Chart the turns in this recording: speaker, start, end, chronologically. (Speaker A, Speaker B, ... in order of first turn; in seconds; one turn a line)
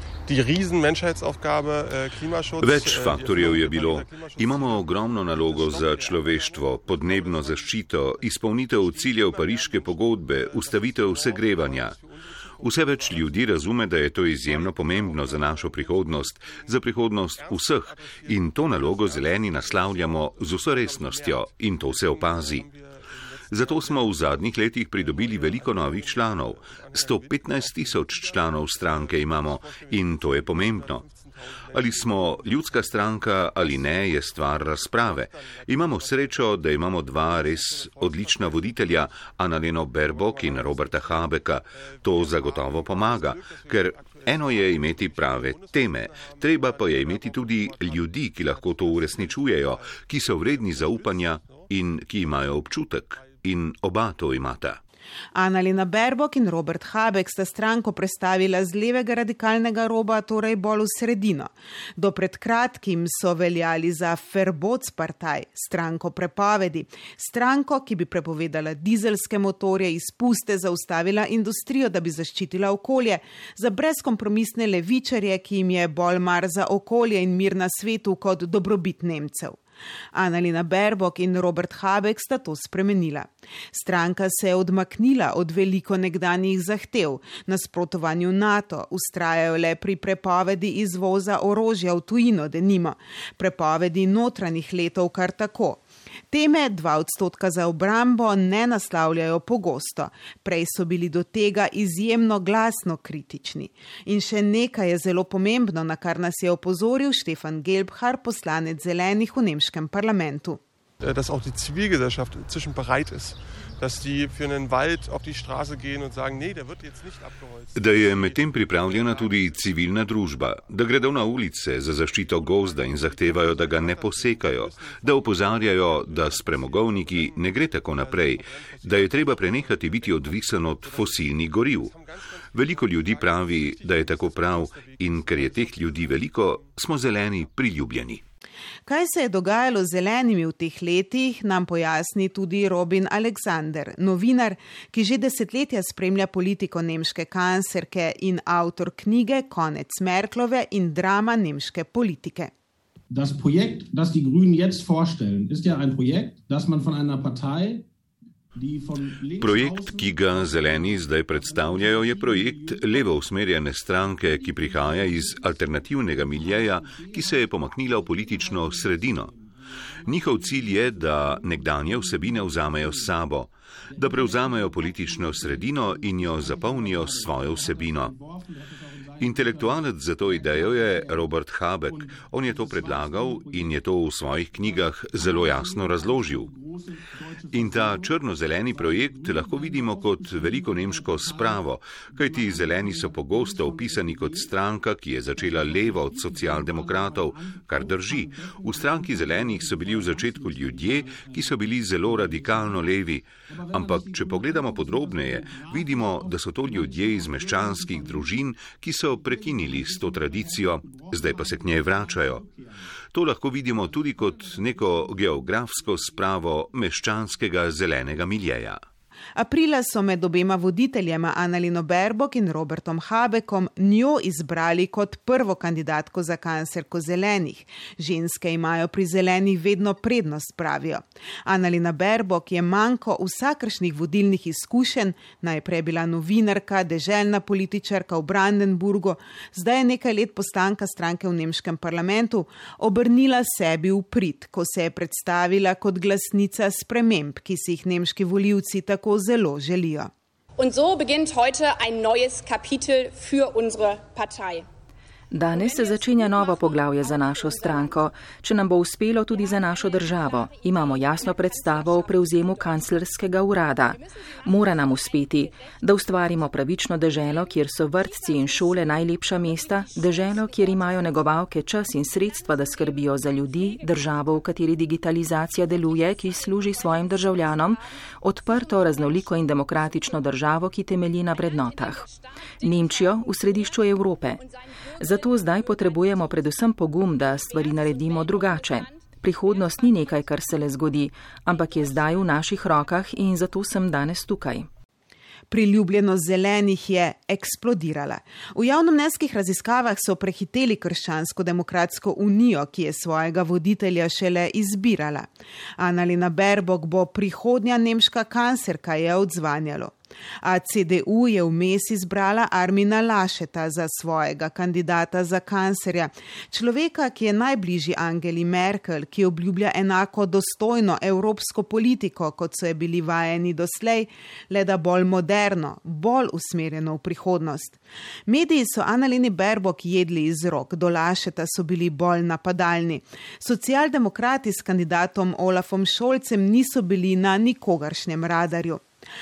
Speaker A: 0.2-52.6
Speaker B: 2.6-11.9
Speaker B: 12.6-22.7
Speaker B: 23.5-31.0
Speaker B: 31.8-54.8
Speaker C: 55.4-79.6
Speaker C: 80.1-110.6
Speaker A: 111.0-120.2
Speaker B: 117.8-131.9
Speaker A: 120.9-136.7
Speaker B: 132.5-138.2
Speaker C: 138.9-152.5
Speaker D: 153.1-157.9
Speaker D: 158.6-163.1
Speaker B: 159.4-169.3
Speaker D: 164.5-165.6
Speaker D: 166.3-169.5
Speaker D: 170.1-173.1
Speaker B: 170.1-178.1
Speaker D: 173.9-181.3
Speaker B: 179.2-186.5
Speaker D: 181.9-183.7
Speaker D: 184.6-188.1
Speaker B: 187.5-212.4
Speaker D: 188.7-191.6
Speaker D: 192.2-194.5
Speaker D: 195.4-202.8
Speaker D: 203.5-208.4
Speaker D: 209.2-212.8
Speaker B: 213.1-218.8
Speaker D: 214.3-215.1
Speaker C: 219.4-250.1
Speaker E: 250.7-254.6
Speaker F: 255.3-282.0
Speaker E: 256.2-256.5
Speaker E: 261.2-261.8
Speaker E: 270.1-270.8
Speaker E: 276.8-277.4
Speaker F: 282.6-284.4
Speaker F: 285.0-294.7
Speaker C: 295.5-338.8